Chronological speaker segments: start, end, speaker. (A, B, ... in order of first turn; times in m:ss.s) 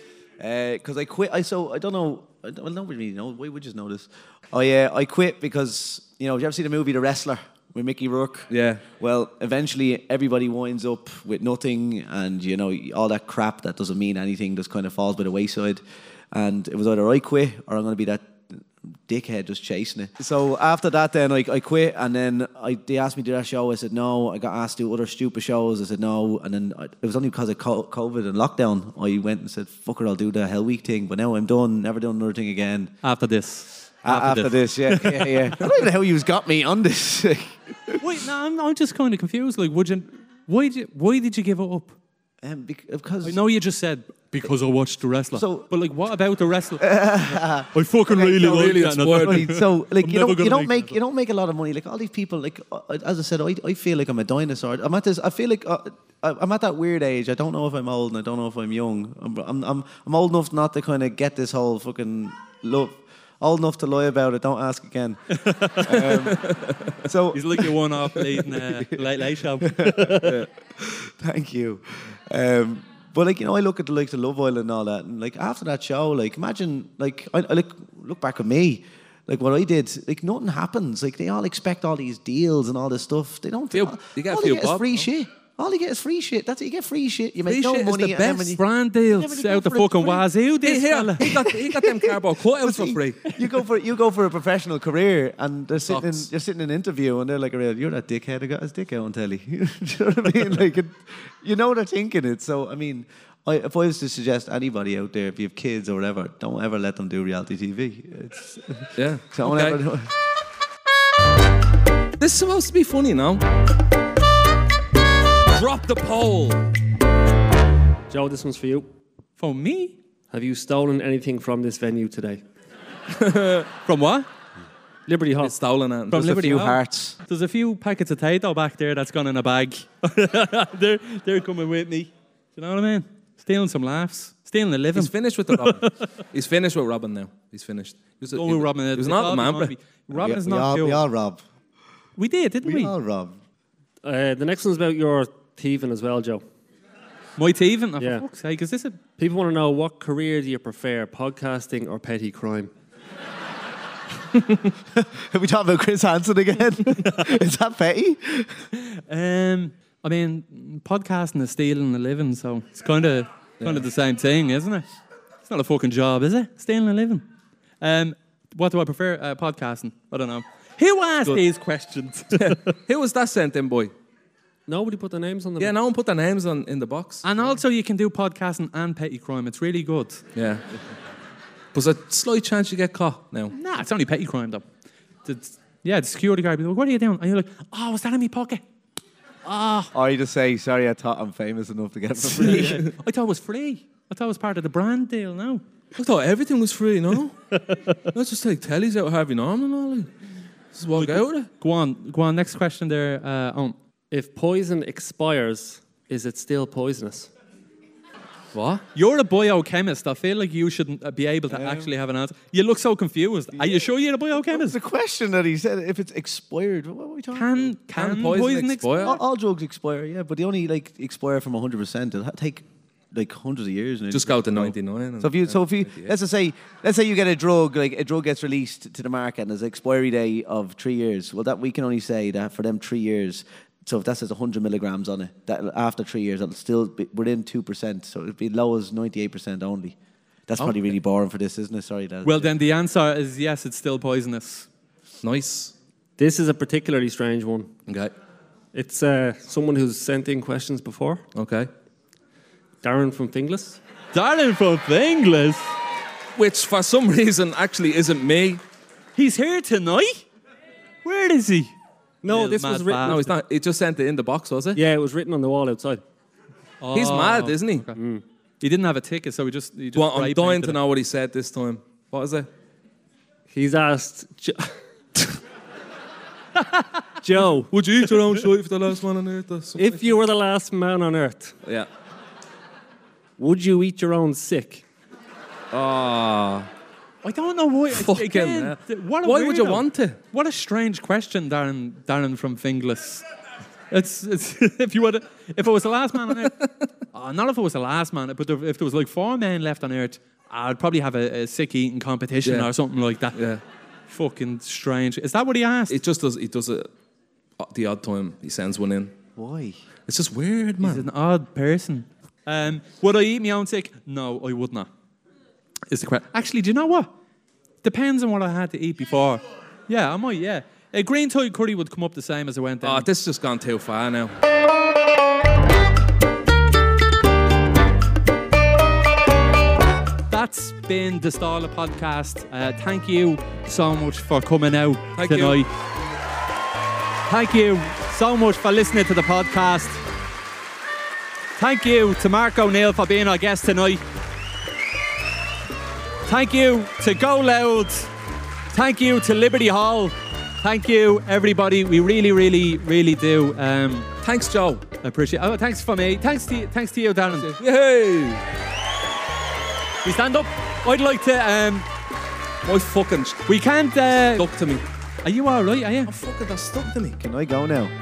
0:00.4-0:32.9 A
0:08.5-0:08.8 B
0:33.0-0:35.6 C
0:34.0-0:38.0 A
0:38.0-0:42.0 C
0:42.4-0:43.4 A
0:43.2-0:46.9 C
0:45.3-0:45.7 A
0:46.8-1:30.3 A
0:47.7-0:51.0 C
0:48.5-0:49.6 B
1:05.4-1:06.3 C
1:06.2-1:07.0 B
1:07.3-1:10.4 C
1:10.2-1:10.5 B
1:23.7-1:25.1 B
1:27.5-1:28.6 B
1:28.6-1:31.3 C
1:30.6-1:33.2 B
1:31.2-1:50.1 A
1:35.8-1:36.3 B
1:49.0-1:49.8 B
1:52.2-1:53.4 B
1:55.5-1:56.6 B
1:58.1-1:58.9 D
1:59.4-2:00.0 C
2:00.3-2:02.4 D
2:03.1-2:03.7 B
2:03.8-2:04.3 C
2:05.1-2:05.6 D
2:05.4-2:06.3 B
2:06.1-2:07.2 A
2:06.1-2:16.0 C
2:14.9-2:19.7 B
2:18.3-2:21.1 C
2:20.1-2:21.4 A
2:22.2-2:22.9 C
2:22.6-2:23.4 A
2:24.0-2:26.4 D
2:27.4-2:29.0 C
2:28.0-2:28.2 D
2:29.2-2:32.7 D
2:34.9-2:38.5 A
2:38.8-2:44.9 C
2:43.6-2:43.9 B
2:45.5-2:47.2 C
2:47.8-2:52.7 C
2:52.3-2:53.9 B
2:54.7-2:55.7 D
2:55.6-2:57.3 B
2:57.2-3:00.2 C
3:00.4-3:00.7 B
3:01.7-3:03.5 B
3:03.5-3:04.7 C
3:05.2-3:08.6 C
3:09.4-3:09.9 C
3:09.9-3:12.9 A
3:12.2-3:15.6 C
3:12.6-3:12.9 B
3:16.0-3:20.1 B
3:20.7-3:21.5 B
3:20.9-3:23.8 C
3:24.1-3:27.3 D
3:28.5-3:34.8 C
3:31.5-3:31.9 A
3:34.4-3:37.7 A
3:37.3-3:39.2 C
3:38.0-3:39.2 B
3:39.0-4:00.0 A
3:44.1-3:46.2 B
4:00.5-4:02.6 A
4:02.2-4:04.7 C
4:05.2-4:05.8 B
4:06.2-4:07.8 D
4:07.9-4:08.1 B
4:08.7-4:11.2 D
4:11.4-4:11.7 B
4:12.8-4:13.8 D
4:14.1-4:15.6 C
4:16.4-4:18.6 B
4:19.2-4:20.3 C
4:21.0-4:21.8 C
4:22.2-4:23.2 D
4:22.3-4:23.3 C
4:23.0-4:24.8 B
4:24.8-4:26.0 D
4:26.8-4:28.0 C
4:26.9-4:27.9 B
4:28.0-4:28.2 D
4:28.6-4:30.8 C
4:30.0-4:32.5 B
4:33.5-4:35.3 D
4:37.2-4:37.7 D
4:37.7-4:39.9 B
4:39.8-4:41.6 D
4:43.4-4:44.8 D
4:45.7-4:46.7 B
4:47.2-4:53.2 C
4:47.9-4:50.2 B
4:53.9-4:56.6 C
4:56.4-4:56.9 B
4:57.1-5:03.4 C
5:02.4-5:02.7 B
5:03.3-5:03.6 B
5:04.1-5:06.0 C
5:05.9-5:06.9 B
5:07.6-5:09.2 B
5:09.4-5:09.8 A
5:10.1-5:11.1 B
5:10.8-5:14.9 C
5:15.9-5:17.1 C
5:17.8-5:23.1 C
5:22.8-5:24.3 B
5:30.3-5:35.7 C
5:35.2-5:35.6 B
5:37.3-5:40.0 C
5:41.6-5:44.0 C
5:46.3-5:48.1 C
5:48.7-5:54.1 C
5:54.2-5:54.8 B
5:55.0-5:57.5 C
5:57.4-5:58.4 B
6:00.0-6:01.9 C
6:02.6-6:03.5 B
6:03.5-6:04.5 C
6:04.4-6:04.8 B
6:05.2-6:06.1 C
6:06.1-6:07.2 B
6:07.2-6:07.9 A